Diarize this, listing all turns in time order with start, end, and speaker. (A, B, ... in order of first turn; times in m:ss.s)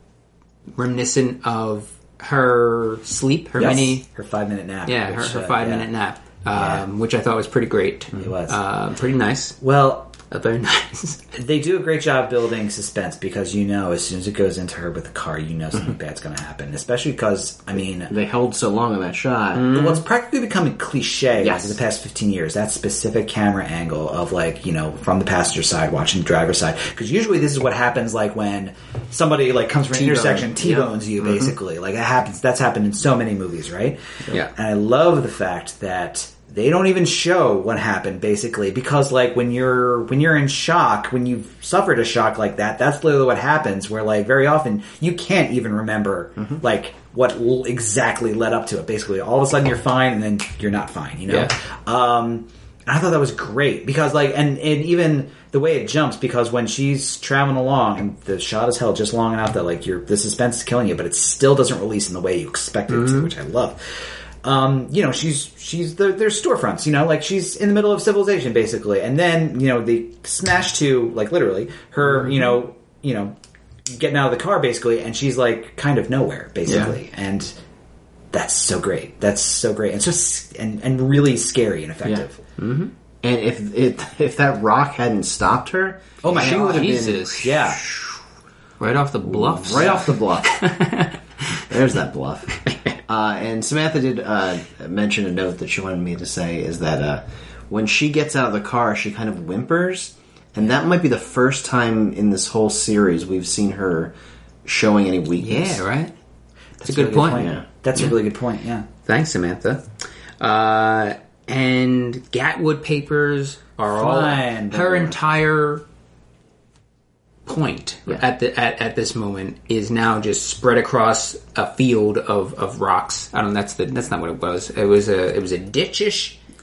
0:00.8-0:04.0 A
0:03.6-0:05.9 B
0:04.8-0:09.6 A
0:06.5-0:06.8 B
0:08.1-0:08.6 B
0:09.6-0:10.2 B
0:10.3-0:11.2 A
0:11.3-0:18.1 B
0:18.1-0:19.8 C
0:19.5-0:20.0 A
0:19.7-1:13.4 B
0:21.4-0:21.8 C
0:29.9-0:31.5 C
1:13.9-1:17.5 B
1:16.7-1:16.9 C
1:18.3-1:22.4 B
1:22.6-1:22.9 A
1:23.2-1:27.6 C
1:26.2-1:27.8 B
1:26.3-1:27.8 A
1:28.8-1:31.6 A
1:29.2-1:30.6 C
1:31.6-1:44.1 C
1:44.6-1:45.8 C
1:45.4-1:46.1 A
1:46.8-1:48.9 B
1:46.8-1:48.1 A
1:47.3-1:47.6 C
1:49.0-1:49.8 A
1:50.4-1:55.8 A
1:53.9-1:55.1 B
1:57.4-2:06.4 A